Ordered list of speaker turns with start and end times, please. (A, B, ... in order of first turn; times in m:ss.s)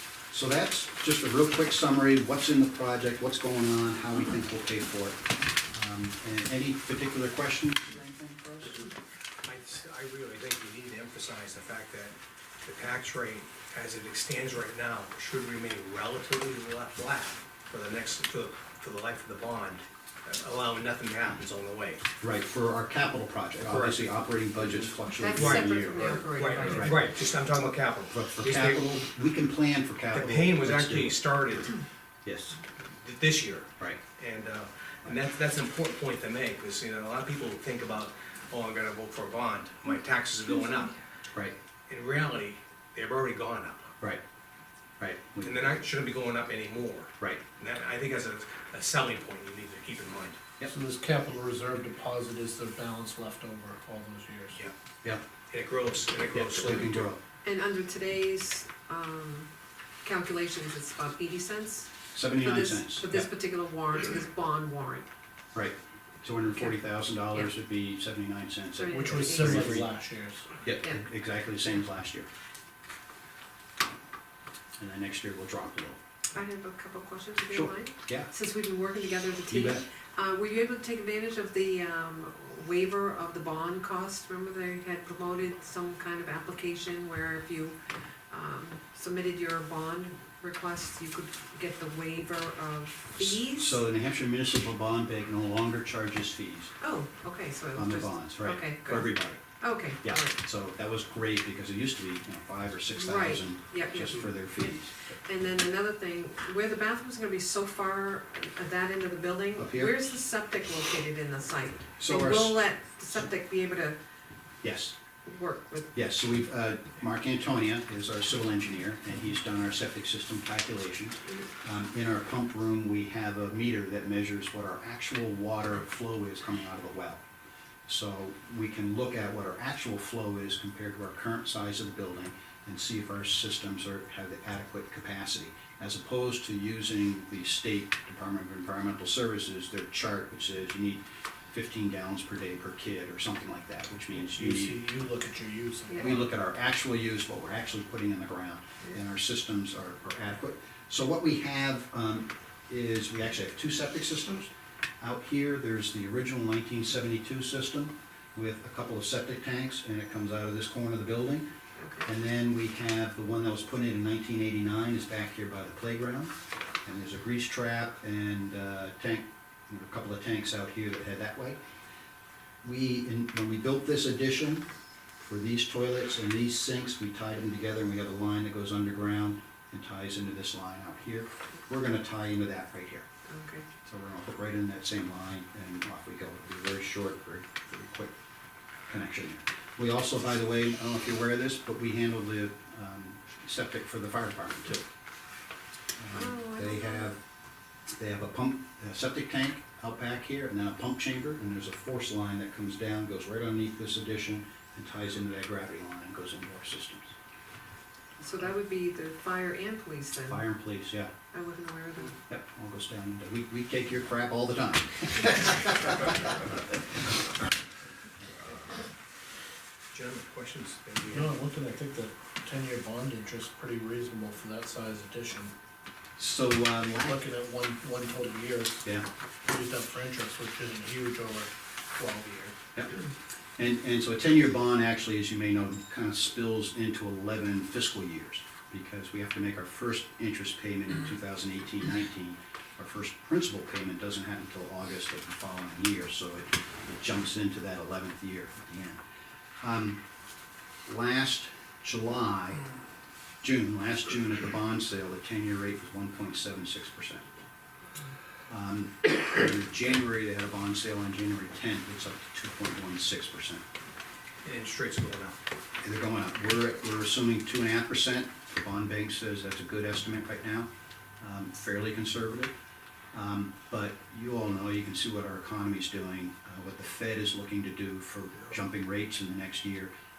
0:00.3-0:08.9 A
0:09.4-0:22.0 B
0:22.2-0:27.0 A
0:23.6-0:24.0 B
0:24.7-0:29.0 B
0:25.1-0:27.0 C
0:28.1-0:31.2 A
0:30.1-0:31.8 B
0:32.2-0:32.6 A
0:32.7-0:41.0 B
0:41.9-0:43.9 B
0:45.0-0:45.5 A
0:45.4-0:50.4 B
0:50.7-0:54.7 D
0:55.5-0:57.1 B
0:56.3-0:57.2 A
0:57.4-0:59.5 C
1:00.0-1:05.1 C
1:02.1-1:03.3 A
1:05.5-1:09.9 A
1:08.8-1:09.7 C
1:08.9-1:10.5 D
1:10.6-1:12.3 A
1:14.8-1:16.0 A
1:16.3-1:27.8 C
1:17.5-1:18.3 A
1:19.5-1:19.8 A
1:28.3-1:33.8 C
1:33.2-1:36.7 A
1:36.8-1:40.4 C
1:37.7-1:45.1 A
1:42.9-1:44.3 C
1:45.2-1:54.0 C
1:49.6-1:50.1 A
1:52.0-1:52.6 A
1:54.6-1:55.0 A
1:55.2-1:55.9 C
1:55.9-2:07.2 A
2:07.9-2:24.8 A
2:24.2-2:26.3 D
2:26.0-2:41.5 A
2:41.8-2:42.1 C
2:42.0-2:51.6 A
2:52.6-2:54.7 A
2:55.2-3:03.1 A
3:03.3-3:03.6 C
3:03.8-3:08.1 A
3:08.9-3:14.8 A
3:16.0-3:17.2 A
3:16.1-3:17.1 C
3:17.9-3:27.1 A
3:28.2-3:30.4 C
3:30.3-3:31.1 A
3:31.3-3:32.2 C
3:32.3-3:36.6 A
3:39.9-3:41.4 B
3:41.1-3:45.5 D
3:46.2-3:47.2 A
3:46.9-3:48.9 D
3:49.4-3:52.6 D
3:53.6-4:09.0 A
4:09.6-4:10.0 A
4:10.8-4:12.6 A
4:13.4-4:17.2 A
4:18.5-4:23.6 A
4:24.4-4:25.4 B
4:25.8-4:30.7 A
4:31.2-4:32.5 A
4:33.1-4:39.9 A